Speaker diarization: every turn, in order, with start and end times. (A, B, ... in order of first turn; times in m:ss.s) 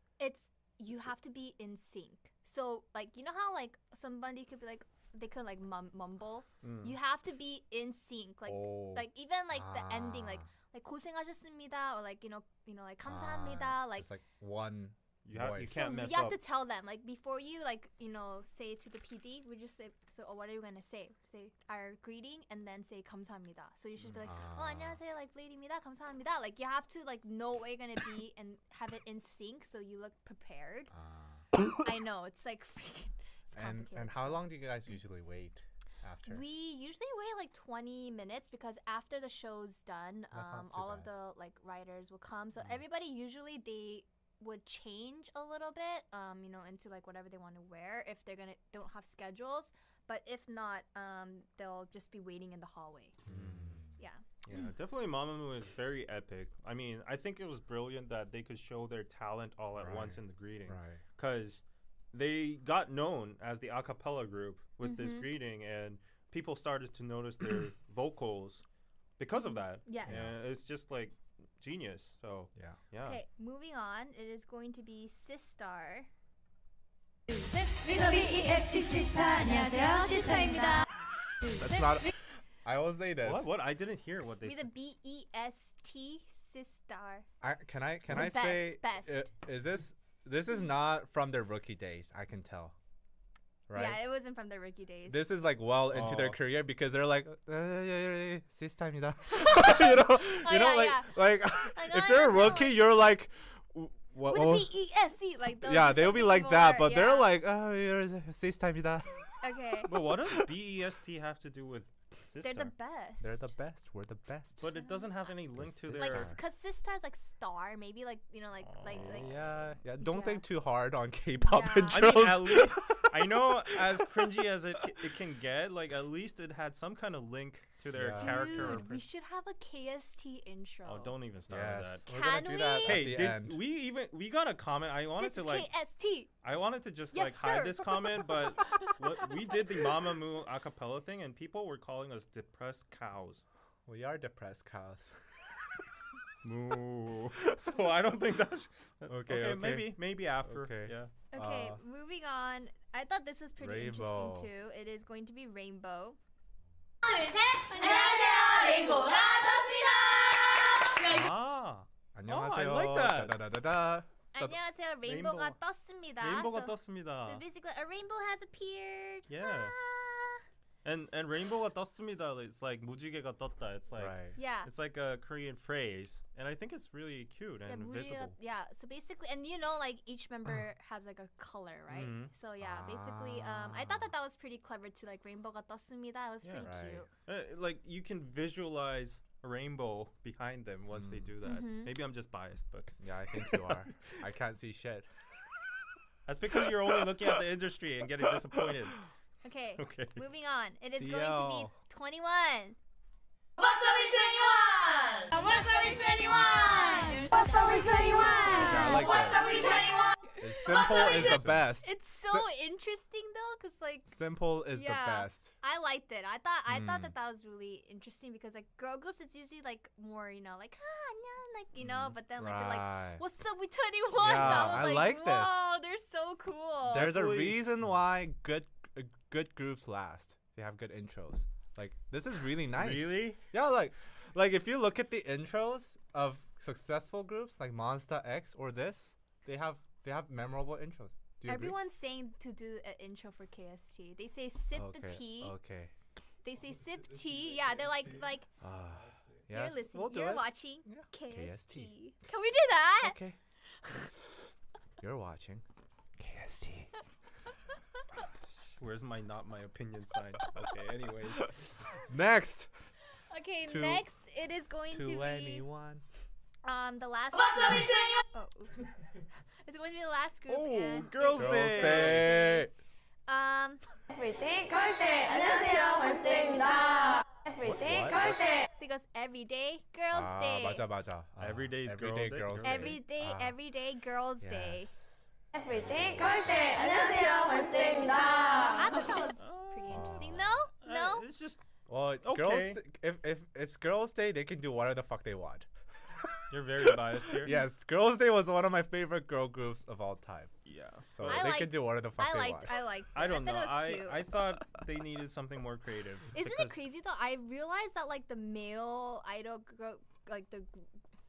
0:00.2-0:14.1 A
0:06.6-0:07.0 B
0:08.5-0:09.0 B
0:09.5-0:10.5 C
0:13.0-0:16.0 C
0:15.2-0:16.4 B
0:15.7-0:30.9 A
0:24.1-0:25.0 C
0:30.9-0:31.4 C
0:31.7-0:34.5 A
0:33.5-0:36.4 C
0:36.2-0:53.2 A
0:40.3-0:41.1 C
0:53.3-0:53.9 C
0:53.3-0:53.8 B
0:54.4-1:08.6 B
0:59.8-1:01.0 C
1:04.8-1:05.3 A
1:09.2-1:13.2 B
1:09.8-1:10.3 A
1:10.0-1:10.3 C
1:13.0-1:16.1 A
1:17.3-1:20.8 D
1:21.6-1:22.1 C
1:22.6-1:23.5 C
1:23.2-1:24.7 B
1:24.4-1:27.2 A
1:27.4-1:32.7 C
1:28.1-1:29.3 A
1:33.7-1:34.0 C
1:33.7-1:35.3 A
1:35.1-1:44.7 C
1:35.9-1:36.4 B
1:39.3-1:42.9 A
1:44.2-1:47.4 A
1:45.6-1:49.2 C
1:49.4-1:49.9 A
1:49.9-1:52.7 B
1:52.4-1:53.5 A
1:53.2-1:54.7 C
1:54.6-1:56.4 B
1:54.7-1:55.3 A
1:55.6-1:56.4 C
1:55.9-1:59.4 A
1:58.6-1:59.7 B
1:58.9-2:04.0 C
2:00.0-2:00.4 A
2:01.4-2:02.1 A
2:01.9-2:09.0 B
2:07.9-2:08.8 C
2:08.2-2:11.2 A
2:10.8-2:12.0 B
2:11.5-2:13.6 C
2:12.1-2:13.0 A
2:12.8-2:15.7 B
2:15.2-2:16.3 A
2:16.4-2:23.4 B
2:17.1-2:18.9 A
2:23.8-2:25.1 C
2:26.4-2:31.1 B
2:29.1-2:31.8 C
2:31.3-2:36.2 A
2:33.6-2:34.5 C
2:37.0-2:41.3 D
2:41.0-2:43.4 B
2:42.1-2:44.5 C
2:44.3-2:50.4 A
2:45.0-2:45.6 B
2:46.2-2:47.4 B
2:49.3-2:49.7 B
2:50.8-2:58.3 B
2:54.0-2:54.4 C
2:54.4-2:54.7 A
2:57.7-3:07.1 A
3:01.9-3:02.3 B
3:02.6-3:04.1 C
3:06.4-3:06.7 B
3:06.6-3:07.1 C
3:07.2-3:13.7 B
3:10.9-3:11.3 C
3:11.4-3:11.9 A
3:13.0-3:15.1 C
3:16.3-3:19.0 B
3:19.4-3:22.8 A
3:19.8-3:20.2 B
3:20.9-3:21.7 C
3:23.6-3:30.2 D
3:25.4-3:25.9 A
3:26.6-3:29.2 A
3:28.5-3:29.5 C
3:30.4-3:32.5 C
3:30.6-3:34.1 A
3:34.1-3:35.5 C
3:34.7-3:47.3 A
3:36.7-3:37.1 C
3:41.8-3:43.2 C
3:44.2-3:45.7 C
3:44.3-3:44.8 B
3:46.8-4:01.8 C
3:47.0-3:47.7 B
3:52.7-3:53.4 B
4:01.4-4:05.6 A
4:04.7-4:05.9 C
4:06.4-4:08.5 A
4:08.6-4:11.9 C
4:09.5-4:13.2 A
4:13.0-4:13.4 C
4:15.0-4:15.6 C
4:16.2-4:16.9 C
4:18.7-4:21.7 B
4:22.1-4:22.7 C
4:23.3-4:25.6 A
4:23.6-4:24.0 C
4:24.9-4:26.0 C
4:26.6-4:28.9 A
4:27.5-4:28.2 D
4:29.6-4:32.7 A
4:30.5-4:32.4 B
4:31.2-4:32.7 C
4:33.3-4:33.8 A
4:34.1-4:38.6 D
4:37.7-4:38.2 C
4:38.8-4:40.8 A
4:40.1-4:43.6 C
4:41.4-4:43.0 B
4:42.6-4:44.9 A
4:44.4-4:46.6 C
4:45.6-4:49.0 D
4:48.5-4:51.2 A
4:49.4-4:50.3 B
4:49.9-4:50.6 C
4:50.8-4:51.6 B
4:51.9-4:55.7 C
4:52.2-4:52.8 B
4:56.5-4:57.6 B
4:57.3-5:00.5 C
5:00.6-5:01.5 B
5:01.1-5:02.8 C
5:01.2-5:04.2 A
5:03.1-5:06.8 B
5:06.3-5:10.9 A